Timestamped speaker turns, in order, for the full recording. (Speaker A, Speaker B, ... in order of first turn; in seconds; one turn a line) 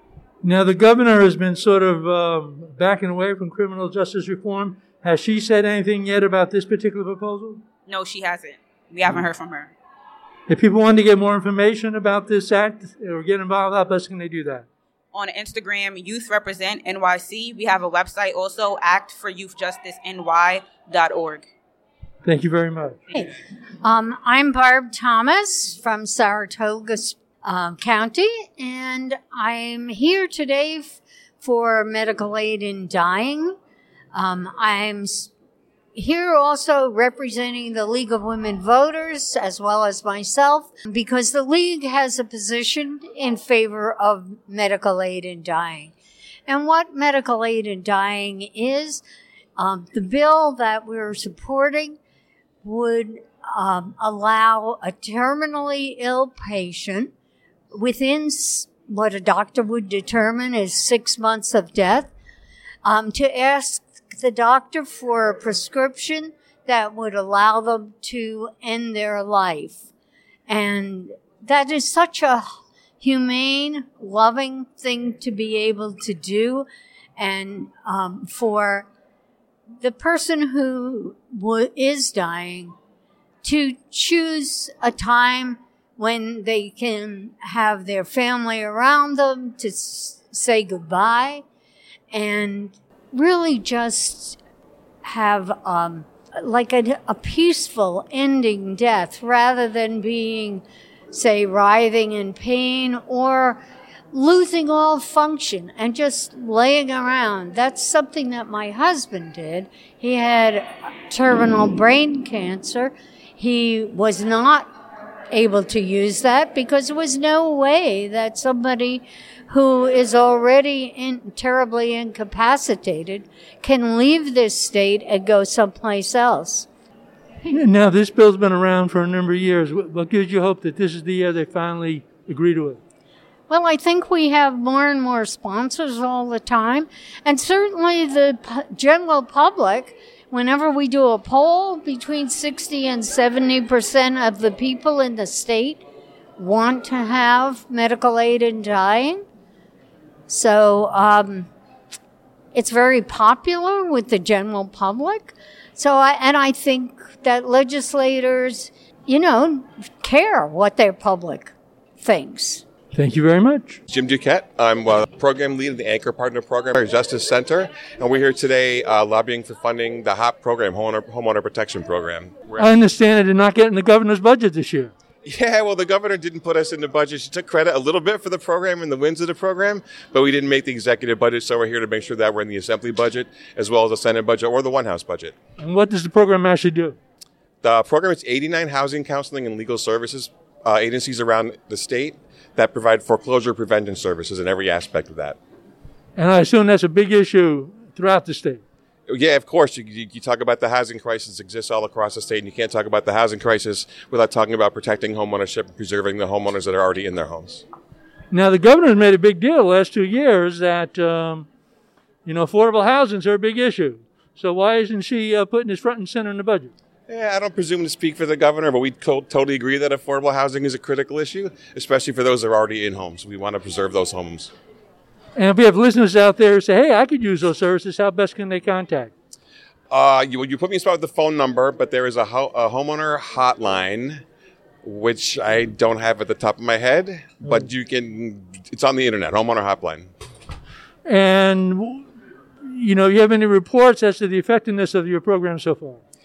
Speaker A: 0.4-7.6
Speaker B: 7.9-9.7
Speaker A: 10.5-14.7
Speaker B: 15.1-21.5
Speaker A: 22.2-23.0
Speaker C: 23.8-33.6
Speaker C: 34.1-35.3
Speaker C: 36.0-45.9
Speaker C: 46.5-49.0
Speaker C: 49.6-52.0
Speaker C: 52.6-57.1
Speaker C: 57.7-62.1
Speaker C: 62.9-69.8
Speaker C: 70.5-72.5
Speaker C: 73.0-76.7
Speaker C: 77.2-78.9
Speaker C: 79.8-82.8
Speaker C: 83.4-91.4
Speaker C: 92.1-94.4
Speaker C: 95.0-103.6
Speaker C: 104.1-114.7
Speaker C: 115.3-126.7
Speaker A: 127.5-132.8
Speaker C: 133.5-145.8
Speaker C: 146.4-149.2
Speaker C: 150.3-151.5
Speaker C: 152.5-162.6
Speaker A: 162.9-163.8
Speaker D: 163.9-172.7
Speaker A: 172.6-174.9
Speaker D: 175.2-185.3
Speaker A: 185.6-187.0
Speaker D: 187.6-195.4
Speaker A: 196.2-198.6
Speaker D: 199.1-207.6
Speaker A: 208.3-211.5
Speaker A: 212.2-216.7
Speaker D: 217.1-224.5
Speaker A: 225.4-229.1
Speaker D: 229.9-234.2
Speaker D: 234.8-240.1
Speaker A: 241.1-242.1
Speaker A: 242.7-246.0